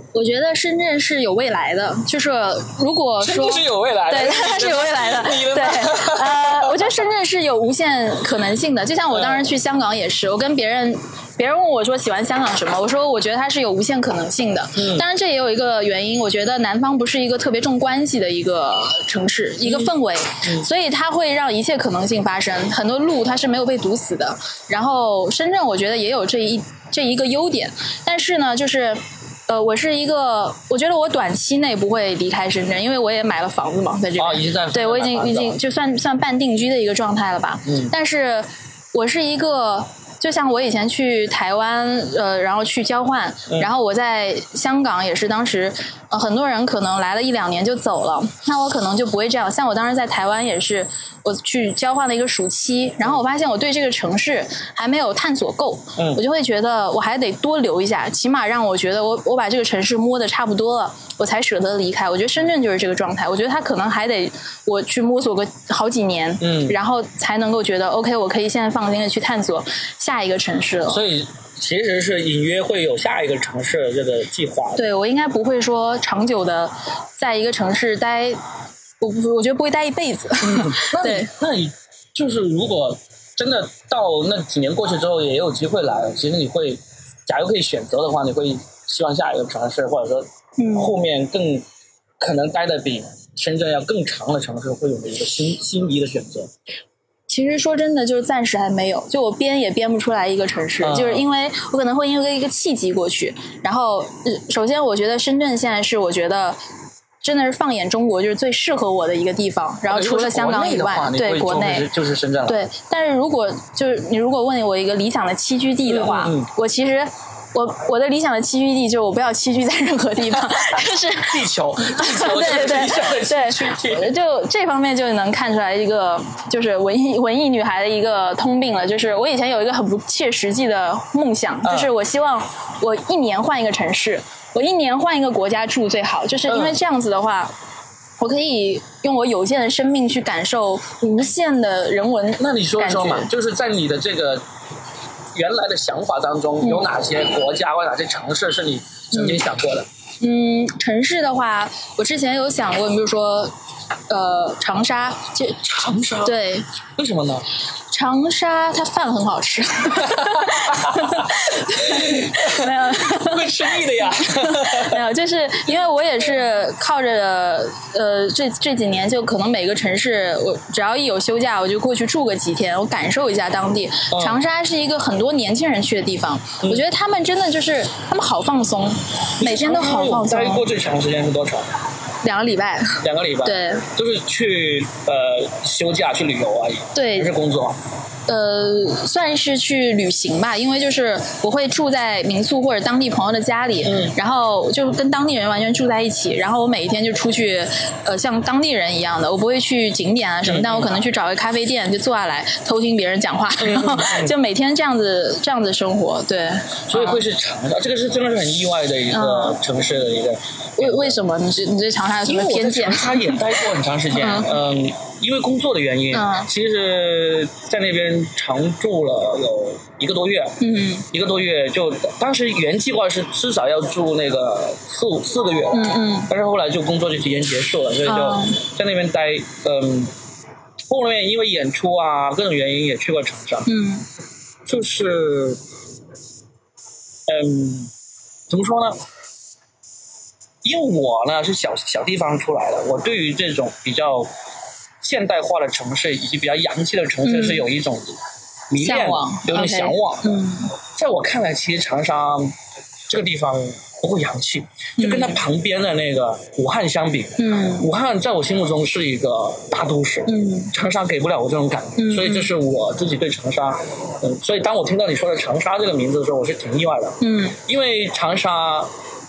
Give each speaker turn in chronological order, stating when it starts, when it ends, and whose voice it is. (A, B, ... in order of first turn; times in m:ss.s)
0:00.1-1:11.0 A
0:03.2-0:06.9 B
0:09.1-0:09.5 B
0:14.7-0:15.1 B
0:19.6-0:19.9 B
0:34.2-0:35.6 B
0:37.6-0:37.9 B
0:56.0-0:56.2 B
1:06.4-1:06.8 B
1:10.9-1:14.8 B
1:14.8-1:18.4 A
1:19.0-1:21.3 A
1:20.4-1:31.6 B
1:30.6-1:30.9 A
1:32.2-1:36.5 B
1:37.3-1:46.6 A
1:40.8-1:41.2 B
1:47.2-1:51.9 A
1:49.9-1:52.6 B
1:52.5-2:17.5 A
1:55.8-1:56.5 B
2:01.2-2:04.1 B
2:11.6-2:11.9 B
2:16.5-2:16.8 B
2:18.2-2:23.3 A
2:22.4-2:24.4 B
2:25.3-2:29.9 B
2:26.6-2:26.9 A
2:29.1-2:29.4 A
2:30.2-2:33.5 A
2:34.1-2:35.6 A
2:35.6-2:36.4 B
2:36.2-2:36.7 A
2:37.0-2:37.5 B
2:37.9-3:00.7 A
2:39.9-2:45.0 B
2:54.1-2:54.4 B
2:59.4-3:01.7 B
3:02.2-3:03.8 A
3:03.0-3:07.8 B
3:06.9-3:07.3 A
3:08.3-3:27.2 A
3:13.8-3:14.2 B
3:20.4-3:20.9 B
3:23.6-3:24.3 B
3:26.9-3:31.2 B
3:29.1-3:29.6 A
3:30.8-3:33.6 A
3:32.2-3:40.6 B
3:34.1-3:34.5 A
3:36.1-3:36.5 A
3:40.6-3:41.1 A
3:41.1-3:50.1 B
3:45.7-3:46.3 A
3:48.0-3:48.6 A
3:50.9-3:53.7 B
3:53.7-3:54.0 A
3:54.6-3:55.6 B
3:57.3-3:57.9 B
3:58.5-3:59.0 B
4:00.6-4:04.3 B
4:05.0-4:08.2 B
4:07.2-4:07.6 A
4:08.7-4:12.5 B
4:08.8-4:10.7 A
4:13.1-4:28.9 B
4:15.0-4:15.4 A
4:17.4-4:17.9 A
4:20.3-4:20.7 A
4:22.0-4:22.5 A
4:27.2-4:27.6 A